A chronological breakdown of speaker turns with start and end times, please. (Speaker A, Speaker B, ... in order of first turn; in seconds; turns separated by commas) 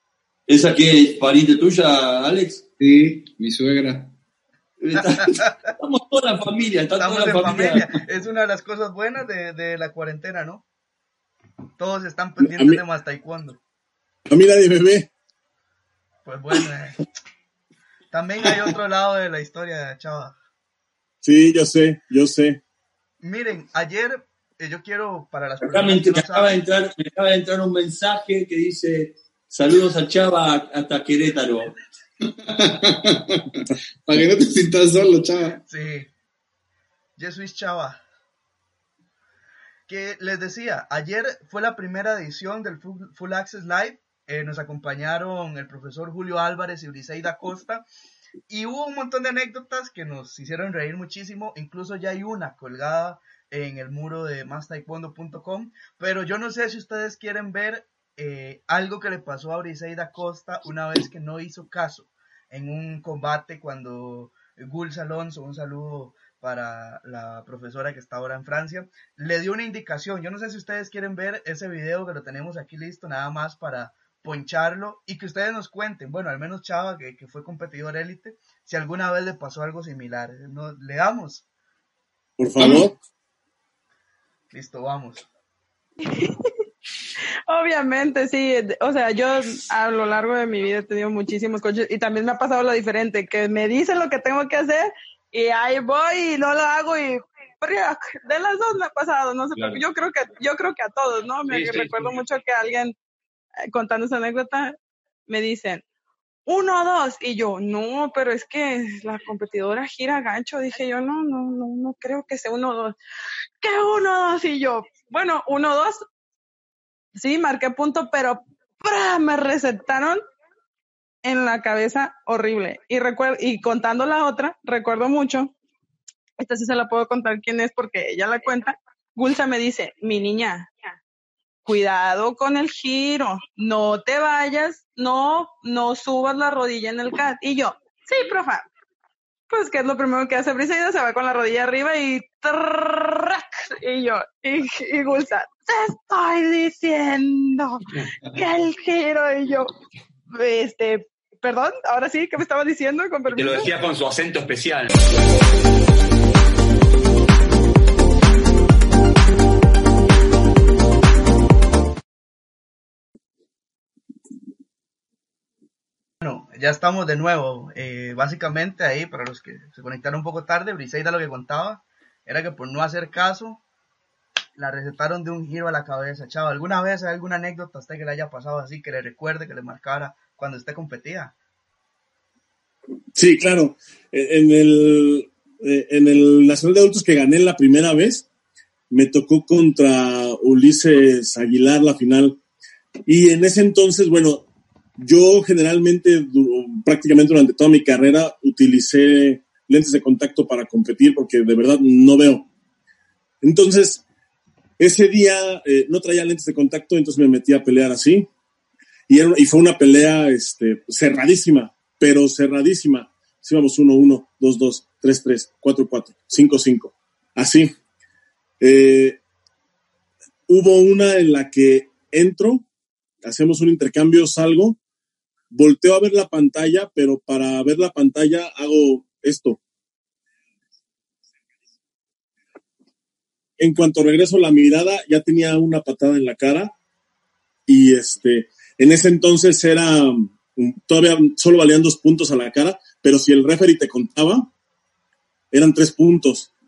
Speaker A: 0.5-2.6, Speaker B: 2.8-4.1, Speaker A: 4.8-7.8, Speaker C: 7.0-10.6, Speaker C: 11.8-13.6, Speaker D: 12.4-12.8, Speaker D: 14.3-15.1, Speaker C: 16.2-17.0, Speaker C: 18.1-20.4, Speaker D: 21.2-22.6, Speaker C: 23.2-26.6, Speaker A: 25.6-31.7, Speaker B: 32.4-35.6, Speaker C: 35.7-36.1, Speaker C: 37.2-38.0, Speaker C: 39.9-47.8, Speaker C: 48.5-81.4, Speaker D: 82.4-82.9, Speaker B: 82.6-82.9, Speaker C: 84.5-85.2, Speaker E: 86.0-86.5, Speaker E: 87.5-102.9, Speaker F: 99.5-99.8, Speaker F: 101.5-102.2, Speaker E: 103.7-104.8, Speaker E: 105.3-105.8, Speaker E: 106.5-113.0, Speaker E: 113.6-116.0, Speaker E: 117.2-120.2, Speaker E: 121.2-125.5, Speaker E: 126.4-130.7, Speaker E: 131.6-138.7, Speaker E: 139.5-149.7, Speaker E: 150.3-153.7, Speaker F: 153.3-155.0, Speaker C: 166.2-173.6, Speaker C: 174.6-181.3, Speaker D: 183.1-188.3, Speaker D: 188.9-192.4, Speaker D: 193.1-194.4, Speaker D: 195.0-202.4, Speaker D: 203.4-204.0, Speaker D: 204.8-208.3, Speaker D: 209.1-217.7, Speaker D: 218.6-219.2, Speaker D: 220.5-222.6, Speaker D: 223.2-224.8, Speaker D: 225.5-229.6, Speaker D: 233.6-236.7, Speaker D: 237.7-244.5, Speaker D: 245.5-246.5